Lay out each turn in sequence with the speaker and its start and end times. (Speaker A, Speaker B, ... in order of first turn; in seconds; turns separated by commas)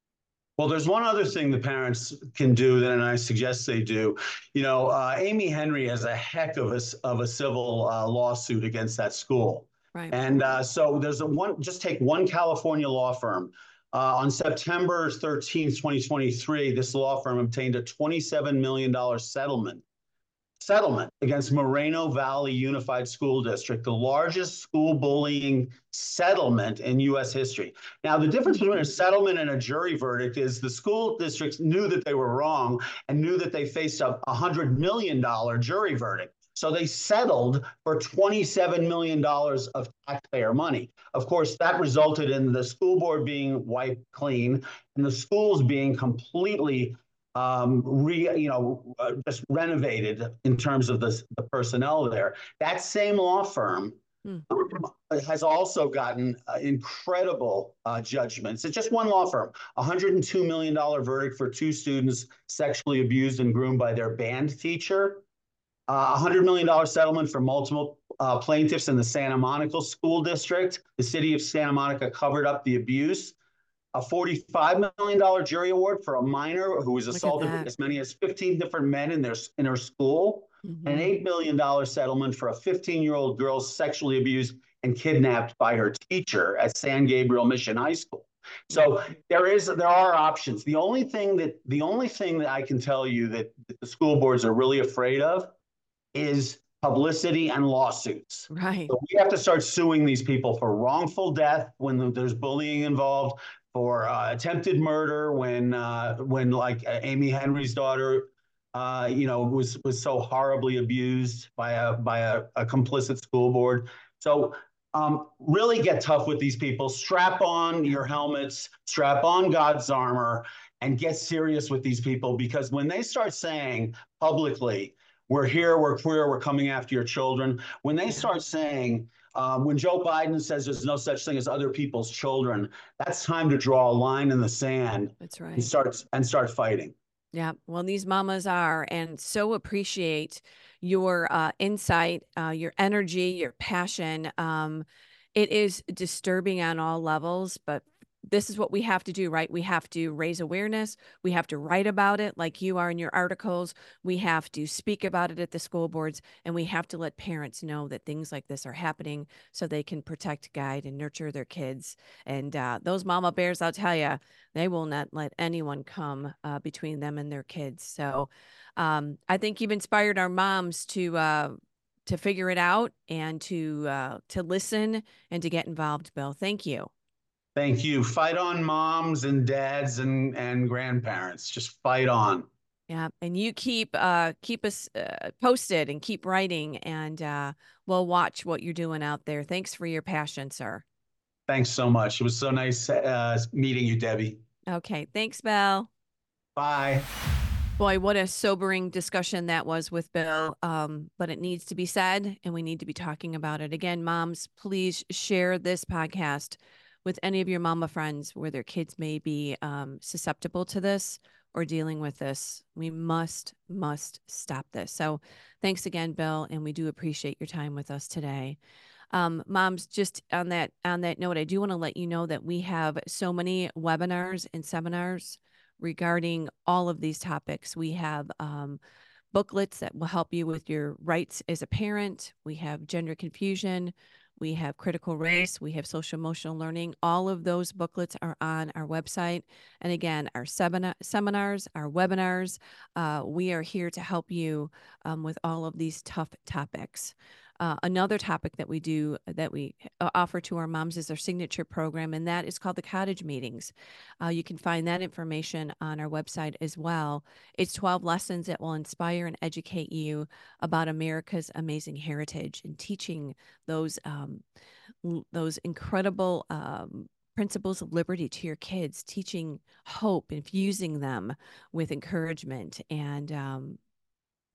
Speaker A: 0.6-19.8, Speaker B: 9.9-10.2, Speaker A: 20.6-65.2, Speaker A: 65.9-73.3, Speaker A: 73.9-95.5, Speaker B: 77.1-77.7, Speaker B: 80.6-81.1, Speaker A: 96.1-136.9, Speaker B: 98.5-98.9, Speaker B: 135.2-135.7, Speaker B: 137.3-176.9, Speaker A: 177.6-182.5, Speaker B: 182.9-190.8, Speaker A: 191.5-194.4, Speaker B: 194.7-195.9, Speaker A: 196.6-197.1, Speaker B: 197.8-218.6, Speaker B: 219.1-228.8, Speaker B: 229.3-264.4, Speaker B: 265.0-273.8